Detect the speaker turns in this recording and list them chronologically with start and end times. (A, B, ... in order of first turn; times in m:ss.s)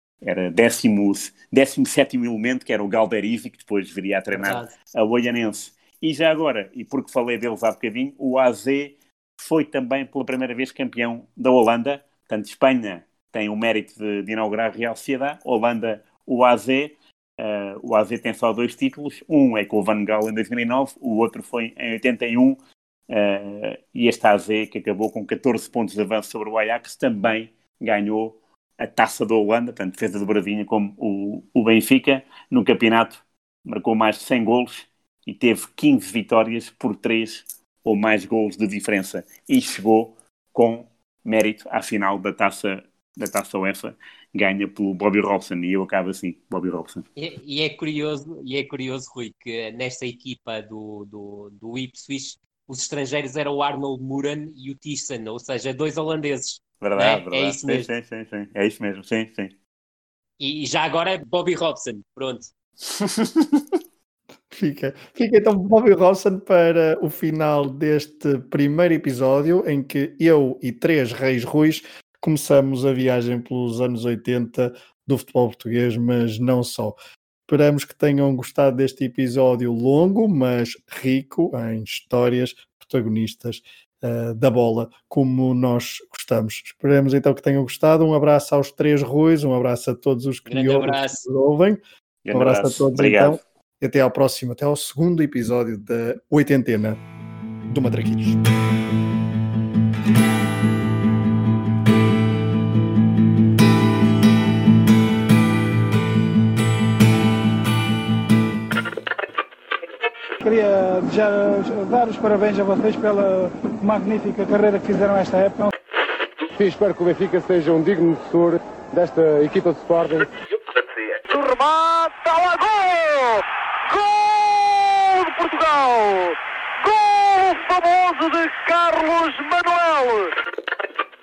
0:00.2-0:22.6 A
0:04.3-0:04.7 B
0:23.1-0:47.0 A
0:47.2-0:57.9 B
0:56.8-0:59.5 A
1:00.4-1:02.5 B
1:04.5-1:17.0 C
1:17.5-1:31.8 C
1:30.5-1:31.2 B
1:32.2-1:33.4 A
1:32.3-1:37.0 C
1:37.7-1:38.4 C
1:50.4-1:55.7 D
1:56.5-2:00.3 E
2:01.1-2:10.4 F